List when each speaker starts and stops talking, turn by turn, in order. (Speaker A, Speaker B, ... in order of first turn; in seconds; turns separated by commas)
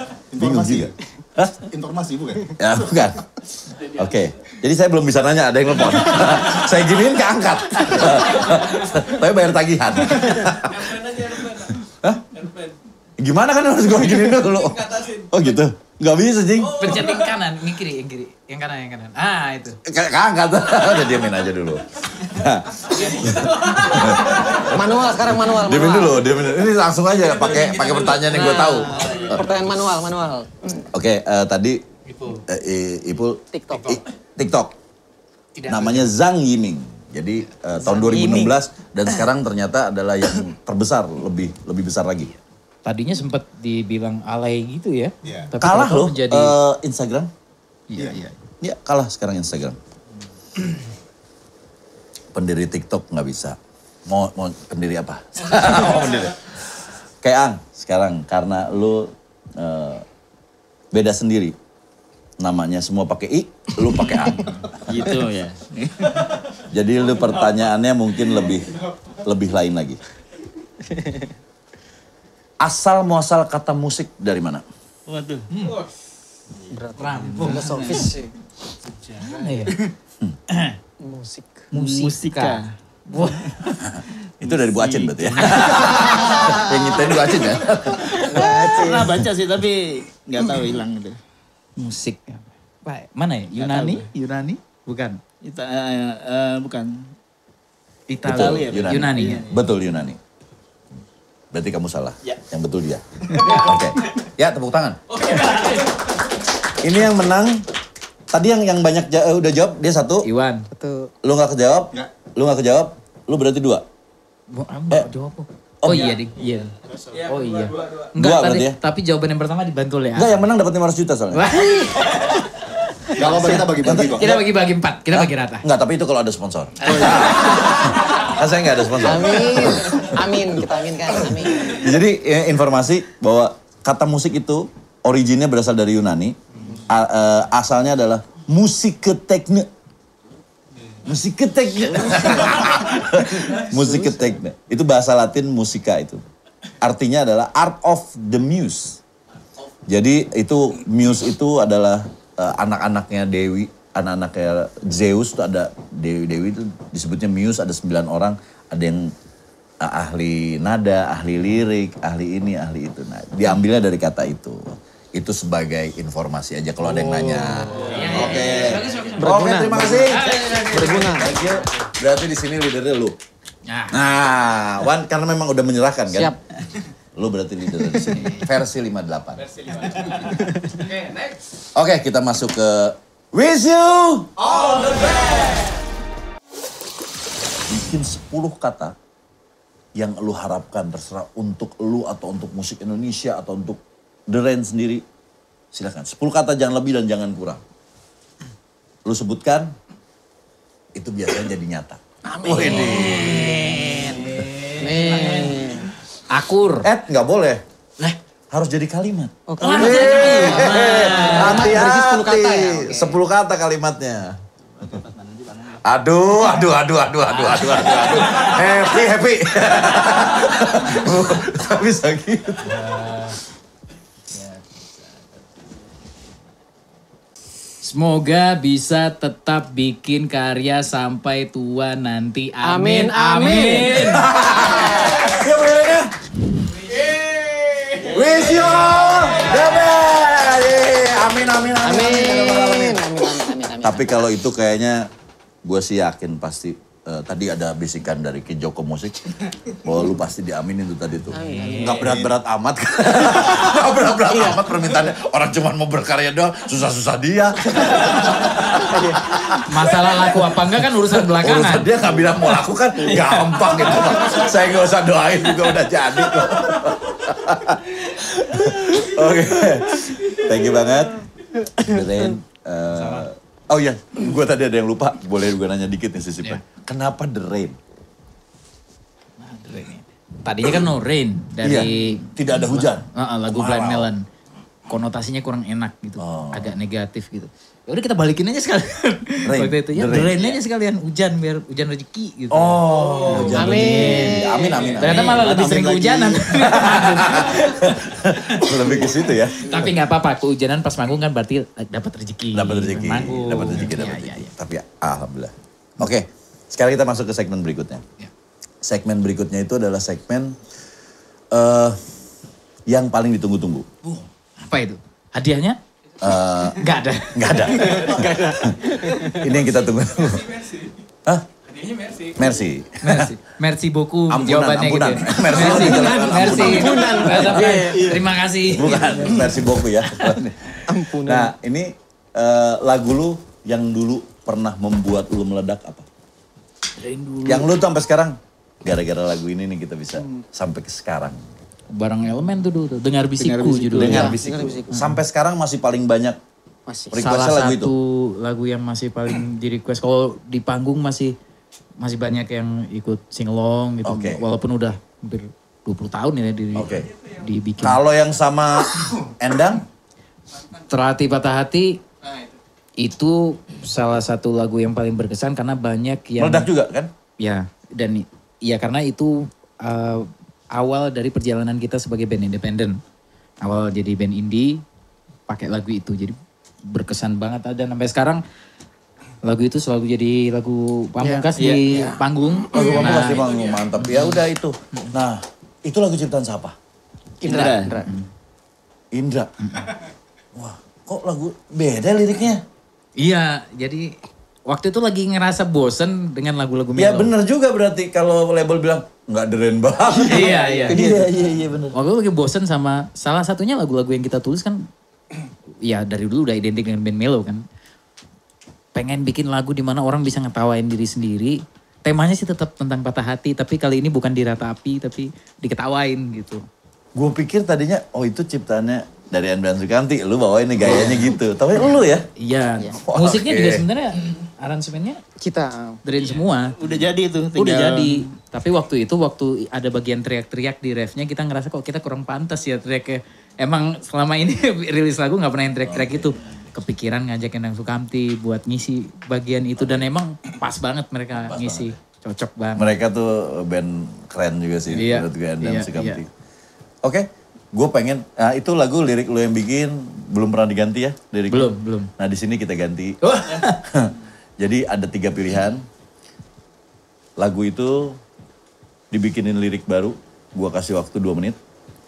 Speaker A: 0.3-1.0, Speaker B: 0.3-1.6, Speaker A: 1.6-2.6, Speaker B: 2.6-12.3, Speaker C: 10.7-11.7, Speaker C: 12.4-12.7, Speaker B: 13.2-17.1, Speaker C: 14.5-15.3, Speaker D: 16.8-19.8, Speaker B: 19.8-29.5, Speaker C: 22.9-24.2, Speaker E: 24.4-26.3, Speaker E: 28.3-30.8, Speaker F: 28.9-29.4, Speaker B: 30.9-31.8, Speaker D: 32.1-32.4, Speaker B: 32.5-34.7, Speaker E: 33.5-34.0, Speaker D: 35.5-36.1, Speaker B: 35.7-42.3, Speaker D: 37.8-38.5, Speaker D: 42.8-46.5, Speaker A: 45.2-45.5, Speaker B: 45.6-47.3, Speaker D: 47.9-48.3, Speaker A: 47.9-48.2, Speaker B: 48.6-49.8, Speaker B: 52.3-60.0, Speaker B: 60.9-61.5, Speaker B: 62.4-65.0, Speaker F: 64.8-66.2, Speaker B: 66.7-70.0, Speaker E: 70.9-71.2, Speaker B: 72.6-74.6, Speaker F: 75.1-75.5, Speaker E: 76.7-78.3, Speaker D: 77.0-78.1, Speaker F: 77.4-78.1, Speaker D: 79.2-79.8, Speaker D: 80.5-80.8, Speaker E: 81.0-81.7, Speaker D: 81.7-83.5, Speaker F: 81.7-82.7, Speaker B: 83.8-88.4, Speaker F: 84.4-86.0, Speaker E: 88.2-89.2, Speaker F: 88.3-91.2, Speaker D: 91.8-95.2, Speaker F: 93.6-94.1, Speaker F: 95.4-97.1, Speaker D: 98.1-99.4, Speaker F: 98.2-99.7, Speaker B: 98.3-100.2, Speaker B: 101.5-105.0, Speaker D: 103.4-103.8, Speaker C: 105.2-105.7, Speaker D: 105.3-105.8, Speaker B: 106.8-107.6, Speaker B: 108.3-110.3, Speaker D: 110.2-110.7, Speaker E: 110.7-111.1, Speaker B: 111.2-113.8, Speaker D: 114.5-120.4, Speaker B: 115.8-116.2, Speaker F: 116.8-117.1, Speaker C: 117.1-118.1, Speaker B: 118.2-118.8, Speaker B: 120.1-121.5, Speaker D: 121.3-125.6, Speaker A: 123.1-124.3, Speaker B: 123.8-124.4, Speaker B: 125.1-130.5, Speaker D: 126.9-127.3, Speaker E: 129.0-131.9, Speaker B: 131.1-139.7, Speaker B: 141.0-146.2, Speaker B: 146.8-149.0, Speaker B: 149.9-159.1, Speaker B: 159.8-173.2, Speaker E: 167.1-167.9, Speaker D: 167.8-171.3, Speaker E: 169.2-171.3, Speaker D: 173.7-174.0, Speaker B: 173.9-176.4, Speaker E: 176.1-176.4, Speaker B: 177.1-179.7, Speaker D: 178.1-178.5, Speaker C: 179.5-180.1, Speaker C: 180.8-181.3, Speaker B: 181.8-185.7, Speaker C: 184.4-185.3, Speaker B: 187.7-188.9, Speaker B: 189.9-195.0, Speaker B: 195.7-197.6, Speaker B: 199.1-199.7, Speaker B: 200.9-203.5, Speaker E: 202.2-205.9, Speaker D: 202.7-205.3, Speaker D: 206.3-206.9, Speaker B: 206.8-207.6, Speaker B: 208.5-214.4, Speaker E: 209.5-213.1, Speaker D: 209.6-211.8, Speaker F: 214.8-215.8, Speaker B: 215.8-222.9, Speaker D: 217.3-218.5, Speaker D: 222.7-223.4, Speaker D: 227.8-234.3, Speaker E: 232.6-235.4, Speaker B: 233.9-236.3, Speaker B: 236.8-243.1, Speaker E: 241.8-244.2, Speaker B: 243.8-245.1, Speaker B: 245.6-271.2, Speaker E: 251.3-252.1, Speaker D: 251.4-252.0, Speaker A: 251.9-252.3, Speaker E: 254.3-254.6, Speaker D: 259.6-261.9, Speaker B: 271.8-277.8, Speaker D: 272.9-273.2, Speaker D: 279.4-284.2, Speaker B: 281.6-284.1, Speaker D: 284.9-298.0, Speaker B: 286.2-286.7, Speaker B: 289.4-290.6, Speaker B: 292.5-295.5, Speaker E: 293.2-295.0, Speaker A: 295.0-296.8, Speaker B: 296.5-299.9, Speaker D: 298.5-298.9, Speaker D: 299.5-304.5, Speaker B: 302.5-308.0, Speaker B: 308.8-310.6, Speaker B: 311.5-312.0, Speaker B: 312.9-313.9, Speaker D: 314.0-315.8, Speaker B: 316.2-320.6, Speaker D: 316.8-318.2, Speaker E: 318.2-318.6, Speaker C: 321.7-322.4, Speaker B: 322.3-323.3, Speaker D: 323.0-329.6, Speaker B: 324.3-328.0, Speaker E: 325.6-328.2, Speaker B: 328.7-336.1, Speaker E: 330.9-331.5, Speaker D: 337.0-337.7, Speaker B: 337.4-341.4, Speaker E: 340.2-340.4, Speaker D: 341.9-344.4, Speaker F: 343.4-344.4, Speaker B: 344.0-346.4, Speaker E: 344.1-344.9, Speaker D: 344.9-345.2, Speaker E: 346.9-347.2, Speaker B: 347.1-347.9, Speaker D: 347.2-351.4, Speaker D: 352.0-358.0, Speaker B: 354.0-354.4, Speaker B: 356.7-357.1, Speaker B: 357.8-359.8, Speaker D: 360.9-362.0, Speaker D: 363.0-366.7, Speaker B: 366.4-367.1, Speaker D: 367.4-373.0, Speaker D: 373.6-374.8, Speaker D: 375.5-378.4, Speaker D: 379.4-384.4, Speaker E: 381.2-382.2, Speaker F: 381.6-381.9, Speaker B: 382.7-386.8, Speaker E: 387.4-388.1, Speaker F: 387.4-388.0, Speaker B: 389.1-389.5, Speaker B: 390.5-392.6, Speaker D: 393.2-394.1, Speaker D: 394.7-397.3, Speaker B: 396.9-401.9, Speaker D: 400.2-401.0, Speaker E: 400.5-401.3, Speaker D: 401.9-404.9, Speaker D: 405.8-407.6, Speaker D: 408.9-416.6, Speaker B: 417.1-422.3, Speaker D: 420.8-421.2, Speaker D: 422.4-425.2, Speaker B: 423.0-423.9, Speaker E: 425.4-426.0, Speaker D: 426.0-426.8, Speaker F: 426.8-428.3, Speaker D: 427.5-442.9, Speaker B: 435.8-436.7, Speaker B: 441.3-442.0, Speaker B: 442.8-446.3, Speaker D: 444.9-446.2, Speaker B: 447.0-455.8, Speaker D: 451.5-452.1, Speaker D: 453.2-453.8, Speaker B: 457.4-458.2, Speaker B: 459.1-461.6